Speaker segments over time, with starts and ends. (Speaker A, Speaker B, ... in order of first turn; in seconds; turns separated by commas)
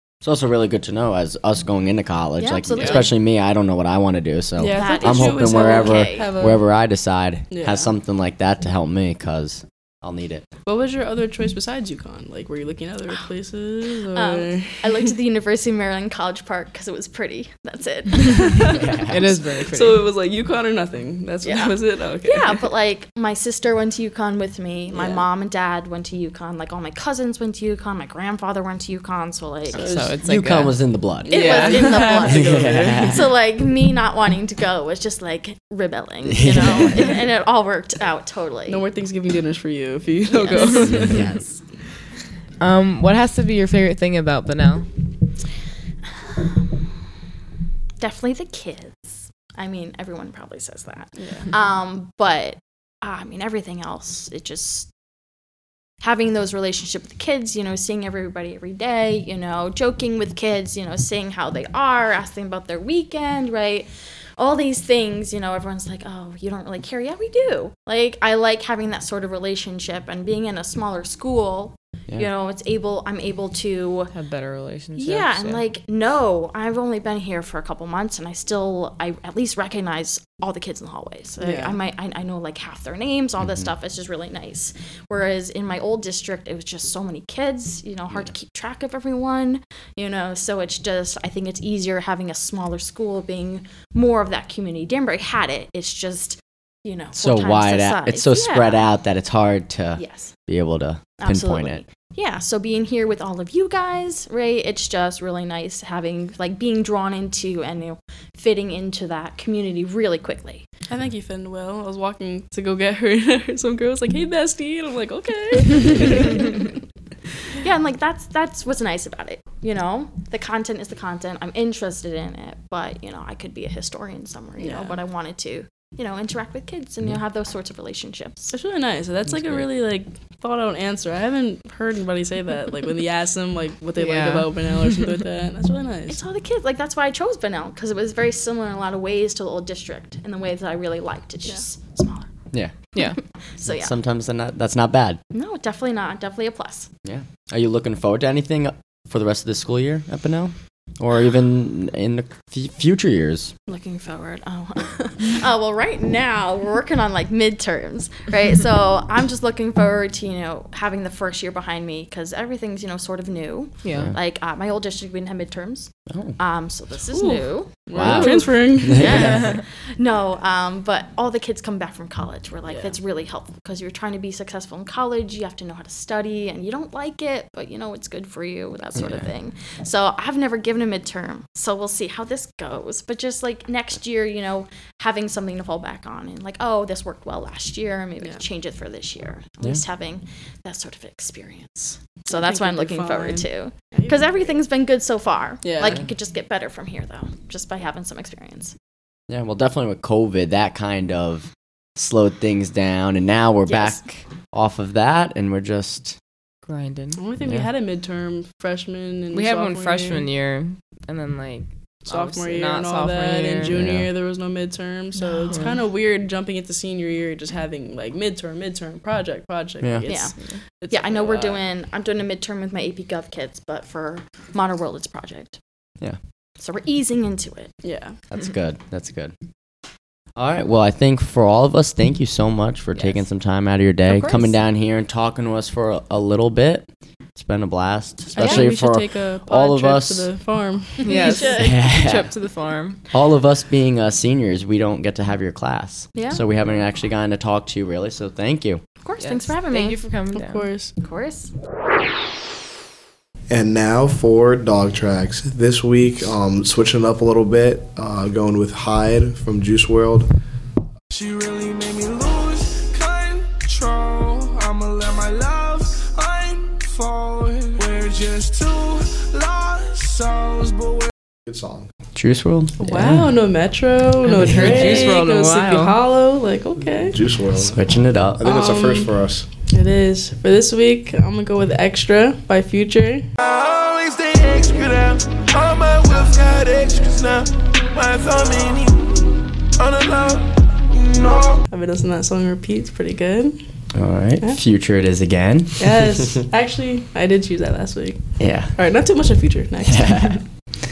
Speaker A: 0.2-10.5, Speaker B: 2.4-3.2, Speaker C: 4.6-6.6, Speaker B: 4.7-6.3, Speaker C: 7.5-7.9, Speaker C: 10.7-15.1, Speaker B: 14.1-18.8, Speaker C: 18.2-18.9, Speaker A: 18.7-19.4, Speaker D: 19.1-20.1, Speaker C: 19.7-22.7, Speaker B: 21.4-29.9, Speaker C: 24.9-25.2, Speaker D: 29.8-30.8, Speaker A: 30.2-31.6, Speaker C: 31.3-33.2, Speaker B: 31.3-38.8, Speaker D: 31.3-32.2, Speaker A: 32.2-33.2, Speaker A: 36.2-37.0, Speaker C: 38.7-41.3, Speaker B: 40.3-41.6, Speaker D: 40.6-41.3, Speaker D: 42.6-44.9, Speaker B: 46.3-46.9, Speaker B: 48.0-54.9, Speaker C: 51.2-51.5, Speaker B: 56.0-74.1, Speaker D: 74.1-75.6, Speaker B: 75.0-98.9, Speaker C: 81.4-81.8, Speaker A: 97.2-101.8, Speaker B: 100.0-100.3, Speaker B: 101.2-110.7, Speaker C: 110.9-116.8, Speaker B: 117.6-128.6, Speaker C: 124.6-125.0, Speaker C: 128.5-136.2, Speaker D: 134.0-134.8, Speaker B: 136.1-142.3, Speaker B: 143.6-143.9, Speaker A: 143.7-145.2, Speaker B: 145.3-146.9, Speaker A: 147.0-153.5, Speaker B: 153.7-198.7, Speaker D: 163.8-164.1, Speaker A: 166.1-166.4, Speaker C: 167.1-169.4, Speaker A: 167.9-169.5, Speaker C: 172.7-173.0, Speaker A: 179.0-179.2, Speaker C: 192.3-194.5, Speaker C: 195.6-196.0, Speaker A: 199.3-206.2, Speaker B: 203.7-204.0, Speaker D: 206.7-207.2, Speaker C: 207.2-210.2, Speaker D: 209.3-213.8, Speaker C: 212.1-221.6, Speaker A: 213.7-214.1, Speaker B: 215.2-215.6, Speaker D: 215.5-215.8, Speaker A: 219.8-220.1, Speaker B: 220.1-220.3, Speaker B: 220.9-225.6, Speaker B: 226.6-227.7, Speaker C: 227.8-228.2, Speaker A: 228.3-229.3, Speaker A: 230.4-240.3, Speaker D: 232.9-233.2, Speaker B: 234.1-234.5, Speaker C: 238.3-241.5, Speaker B: 241.0-241.7, Speaker D: 241.0-243.0, Speaker A: 241.6-242.3, Speaker A: 243.1-248.8, Speaker B: 246.2-246.4, Speaker B: 249.0-250.0, Speaker D: 249.2-250.7, Speaker C: 250.3-250.9, Speaker B: 251.0-251.5, Speaker E: 253.5-260.3, Speaker F: 261.1-271.1, Speaker E: 271.5-271.9, Speaker A: 272.1-273.3, Speaker C: 272.8-277.2, Speaker D: 274.3-275.9, Speaker A: 274.5-275.2, Speaker E: 277.1-277.8, Speaker A: 277.7-278.4, Speaker E: 278.4-279.5, Speaker C: 278.4-279.1, Speaker C: 279.7-283.3, Speaker F: 283.4-291.6, Speaker C: 291.7-293.6, Speaker A: 293.9-296.0, Speaker C: 295.8-298.2, Speaker A: 298.4-298.8, Speaker C: 298.8-300.4, Speaker A: 299.8-300.4